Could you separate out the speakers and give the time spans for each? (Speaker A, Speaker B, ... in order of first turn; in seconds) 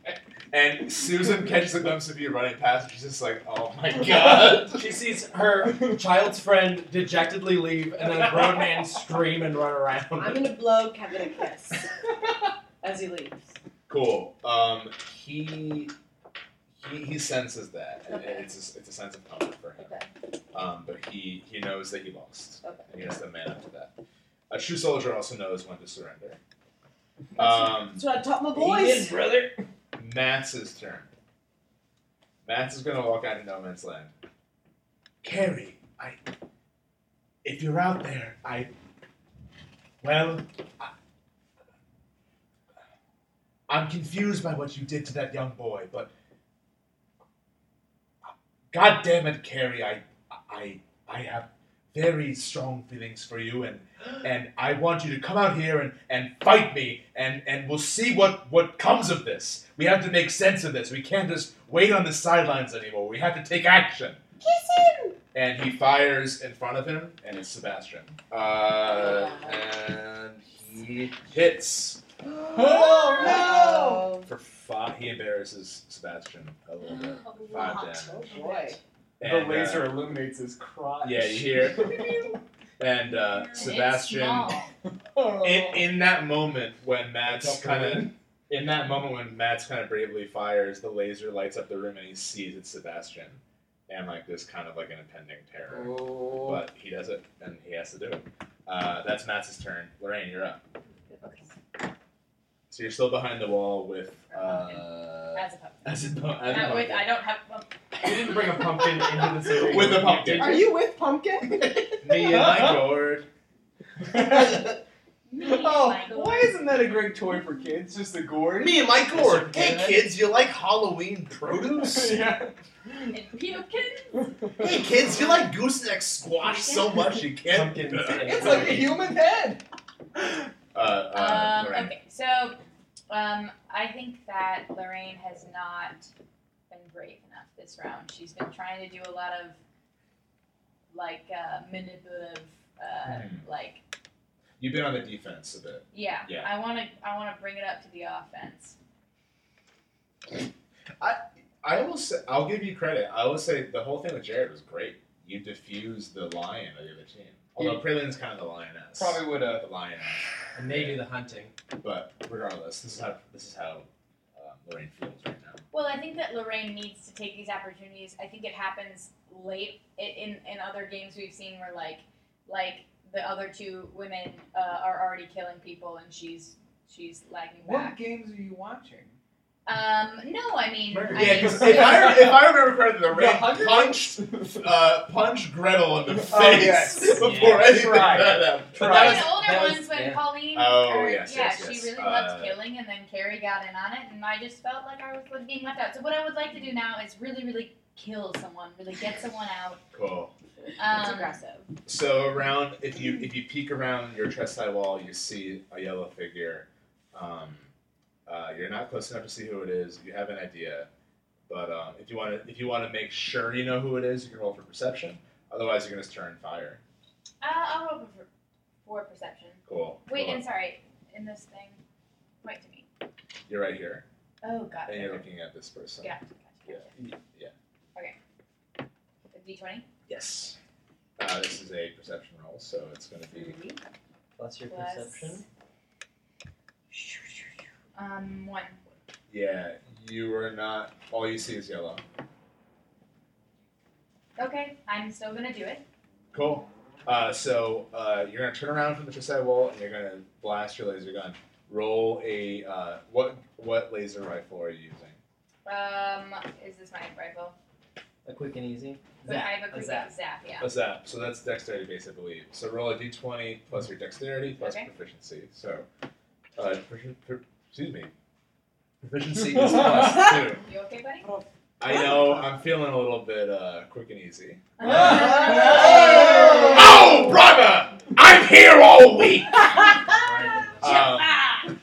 Speaker A: 0.5-4.9, 13.9-15.9, 16.8-19.9, 20.5-23.9, 24.5-26.4, 27.4-28.0, 29.9-31.1, 32.4-34.1, 35.2-36.2, 37.4-38.7, 40.0-40.9, 43.7-46.1, 48.7-64.2, 65.3-72.0, 74.2-78.2, 79.2-79.9, 81.0-82.0, 82.8-84.6, 85.4-100.6, 102.7-107.1, 109.7-110.6, 112.0-113.3, 118.6-122.2, 124.6-128.8, 130.7-131.9, 143.1-143.4, 144.6-146.5, 151.0-161.1, 161.7-165.6, 181.1-189.4, 190.5-192.6, 199.9-200.3, 201.9-207.7, 208.3-210.9, 211.5-216.8, 219.7-220.4, 223.5-224.1, 224.9-226.2, 226.7-227.5, 230.1-230.6, 231.2-233.6, 239.3-242.0, 246.3-255.2, 260.6-265.9, 266.6-268.1, 269.0-270.6, 271.8-279.9, 280.8-281.4
Speaker B: 4.7-10.5, 87.2-88.1, 108.0-110.7, 119.1-120.1, 127.5-129.1, 160.6-161.5, 180.9-181.9, 187.1-187.8, 188.8-190.3, 234.4-235.4, 258.2-260.1, 280.1-281.1
Speaker C: 10.2-11.8, 12.8-13.6, 18.1-18.5, 19.8-20.1, 22.6-23.1, 27.4-29.3, 64.4-65.2, 68.9-69.6, 72.2-74.3, 77.6-78.8, 110.4-112.1, 200.9-201.7, 271.3-272.5, 275.5-277.2
Speaker D: 28.5-29.6, 72.5-74.1, 79.2-82.4, 85.1-85.9, 95.7-96.6, 109.5-109.9, 112.1-112.9, 114.0-114.8, 115.4-118.9, 121.7-123.2, 124.1-124.6, 128.2-129.6, 157.6-157.8, 158.9-159.7, 177.6-179.2, 181.6-182.5, 183.1-184.7, 186.2-189.2, 274.8-276.1
Speaker E: 77.2-78.6, 123.1-124.3, 280.8-281.7
Speaker F: 83.5-84.7, 101.2-101.5, 104.3-105.9, 106.5-108.4, 115.3-116.6, 126.4-127.1, 131.1-132.6, 133.1-136.1, 136.7-139.6, 140.9-143.8, 145.9-148.8, 165.7-177.9, 179.7-182.3, 188.8-199.8, 200.8-201.4, 217.4-218.3, 218.8-221.8, 222.4-222.9, 224.4-225.2, 226.0-226.9, 229.3-229.8, 233.4-233.8, 234.7-235.4, 236.9-238.8, 244.4-245.8, 255.6-257.6, 259.2-260.7, 264.6-264.9, 270.1-271.3, 274.8-276.9